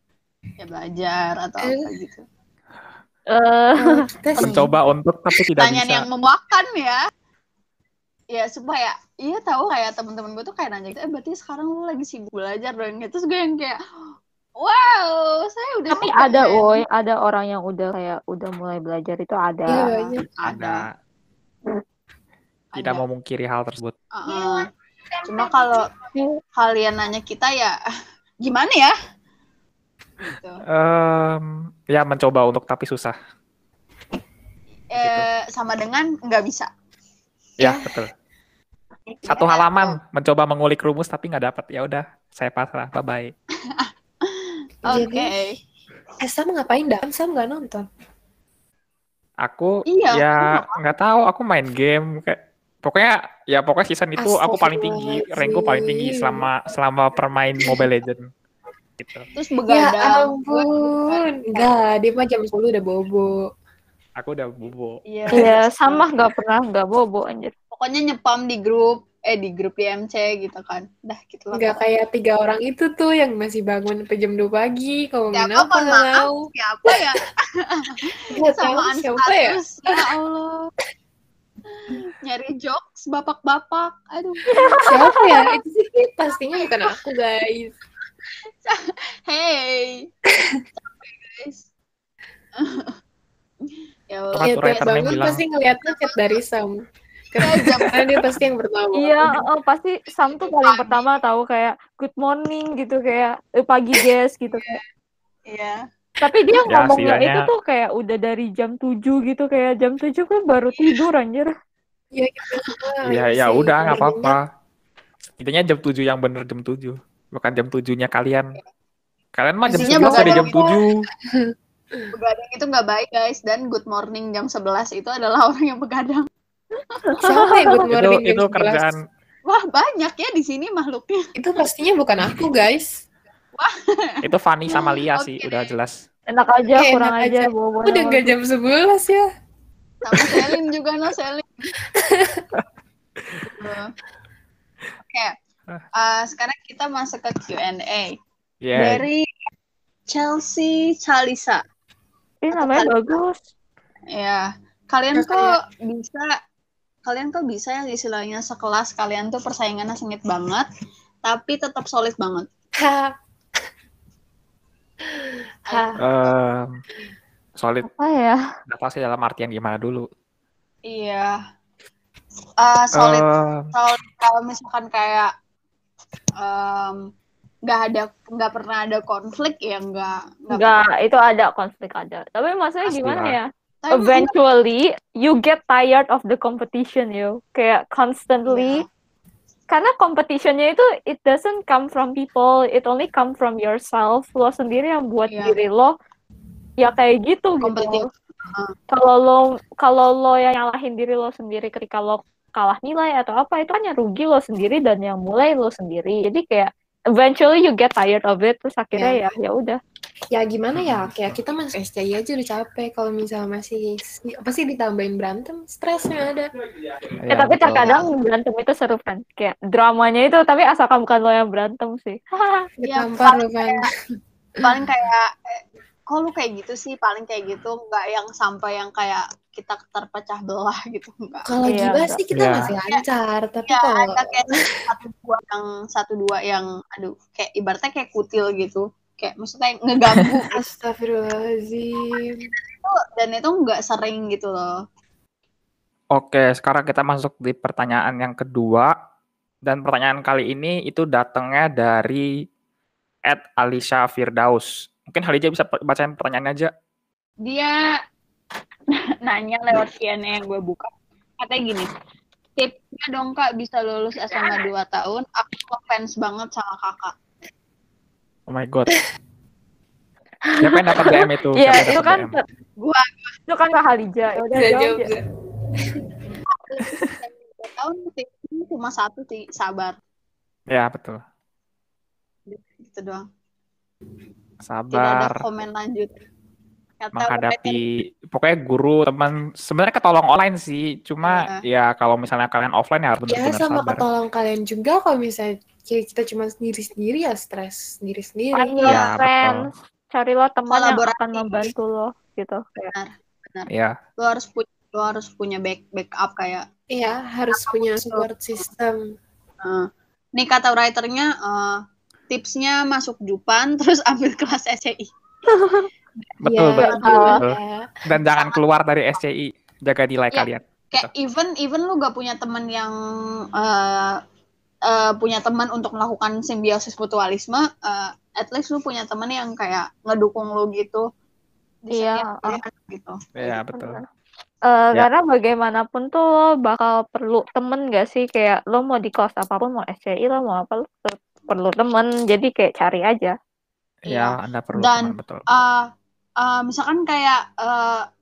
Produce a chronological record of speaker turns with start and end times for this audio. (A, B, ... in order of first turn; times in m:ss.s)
0:00.6-0:02.2 A
0:01.6-0:01.9 B
0:03.3-0:04.0 C
0:03.8-0:04.7 B
0:04.4-0:04.7 A
0:04.4-0:06.1 D
0:05.6-0:07.0 A
0:08.3-0:13.8 A
0:14.6-0:16.8 A
0:15.9-0:19.9 C
0:19.7-0:20.3 B
0:19.8-0:20.8 A
0:20.4-0:20.9 D
0:22.7-0:23.0 A
0:22.8-0:23.9 D
0:24.1-0:24.7 A
0:25.3-0:25.8 A
0:26.6-0:27.8 A
0:28.4-0:28.9 A
0:30.3-0:30.6 A
0:30.7-0:33.2 D
0:34.9-0:36.7 A
0:35.0-0:35.3 D
0:37.6-0:38.1 D
0:37.6-0:37.9 B
0:39.1-0:40.0 A
0:39.3-0:43.3 D
0:43.7-0:45.6 A
0:44.9-0:45.4 B
0:46.2-0:47.9 B
0:49.4-0:58.3 D
0:49.9-0:50.8 A
0:54.2-0:56.5 B
0:59.0-0:59.3 D
0:59.4-1:01.7 A
0:59.7-1:03.3 B
1:04.2-1:05.0 D
1:05.1-1:06.1 A
1:05.3-1:07.5 C
1:07.7-1:11.8 A
1:11.5-1:16.4 B
1:15.3-1:20.7 A
1:18.3-1:20.1 B
1:21.7-1:24.7 A
1:24.5-1:25.1 C
1:24.8-1:27.8 B
1:28.5-1:30.1 A
1:30.3-1:30.6 B
1:30.8-1:31.6 A
1:32.6-1:32.9 A
1:33.6-1:35.3 A
1:34.3-1:35.4 D
1:34.4-1:36.8 B
1:37.3-1:39.4 B
1:37.4-1:38.0 A
1:39.0-1:44.8 C
1:40.3-1:41.1 A
1:45.5-1:45.8 A
1:46.2-1:51.5 C
1:46.6-1:47.5 D
1:50.8-1:51.0 A
1:52.1-1:54.4 B
1:53.1-1:54.4 D
1:55.4-1:58.5 D
1:59.4-2:00.9 D
1:59.7-2:00.7 B
1:59.7-2:00.8 A
2:01.3-2:02.1 B
2:02.1-2:06.3 A
2:07.1-2:07.5 C
2:07.2-2:08.9 B
2:07.9-2:09.0 D
2:09.5-2:11.2 A
2:11.4-2:13.0 B
2:13.6-2:15.7 A
2:14.2-2:15.9 D
2:16.3-2:18.3 C
2:16.8-2:19.3 B
2:20.0-2:21.7 A
2:20.1-2:20.6 B
2:22.0-2:22.4 B
2:23.5-2:23.9 A
2:26.0-2:28.2 A
2:28.6-2:29.0 D
2:28.8-2:29.2 A
2:30.1-2:31.6 A
2:32.4-2:33.4 C
2:32.5-2:33.2 A
2:34.1-2:36.3 A
2:35.2-2:35.6 B
2:37.1-2:40.7 A
2:41.3-2:42.5 A
2:42.8-2:43.1 B
2:45.1-2:46.0 B
2:45.7-2:46.3 A
2:46.0-2:46.7 D
2:47.6-2:47.9 D
2:47.8-2:48.4 C
2:48.7-2:50.1 D
2:50.9-2:51.4 A
2:52.6-2:55.3 A
2:53.0-2:53.7 D
2:56.4-2:57.0 A
2:57.7-3:00.8 A
3:00.5-3:08.8 C
3:03.0-3:03.4 D
3:03.8-3:04.3 A
3:08.5-3:08.8 A
3:09.7-3:15.9 C
3:15.3-3:15.6 A
3:16.8-3:18.1 C
3:17.6-3:18.7 A
3:18.9-3:29.8 C
3:30.3-3:36.5 B
3:30.8-3:31.4 D
3:37.2-3:37.9 D
3:37.3-3:42.6 C
3:37.8-3:38.1 A
3:42.8-3:43.9 B
3:42.9-3:43.9 A
3:44.6-3:51.5 A
3:51.5-3:54.6 B
3:51.7-3:52.2 C
3:52.3-3:52.7 D
3:53.7-4:00.6 A
4:00.5-4:02.5 B
4:02.5-4:04.8 A
4:06.1-4:08.9 D
4:09.6-4:12.3 D
4:13.3-4:16.7 D
4:17.4-4:17.8 A
4:19.2-4:21.9 A
4:22.6-4:27.1 A
4:28.5-4:29.0 D
4:30.5-4:32.4 C
4:30.6-4:32.4 D
4:32.8-4:33.4 A
4:33.5-4:35.1 C
4:34.4-4:35.2 B
4:36.5-4:40.0 A
4:40.7-4:41.2 D
4:42.5-4:43.2 A
4:44.7-4:45.3 D
4:44.9-4:46.2 A
4:47.0-4:47.8 A
4:47.2-4:54.0 D
4:51.2-4:51.6 A
4:53.3-4:58.8 B
4:58.5-5:02.9 C
4:58.9-4:59.7 D
5:00.7-5:01.7 A
5:03.0-5:06.6 A
5:03.7-5:04.0 D
5:06.9-5:09.0 B
5:07.5-5:08.3 A
5:09.6-5:11.8 A
5:12.3-5:15.1 A
5:15.5-5:15.9 C
5:16.4-5:17.9 B
5:16.4-5:17.6 D
5:16.8-5:17.4 A
5:17.0-5:17.4 C
5:18.1-5:21.1 D
5:18.3-5:18.6 A
5:20.3-5:23.0 A
5:23.6-5:24.2 A
5:24.9-5:31.0 A
5:31.8-5:33.6 A
5:31.9-5:32.6 C
5:33.4-5:34.0 D
5:33.8-5:34.0 C
5:34.7-5:43.3 C
5:44.1-5:45.4 D
5:44.1-5:45.8 A
5:46.4-5:48.1 A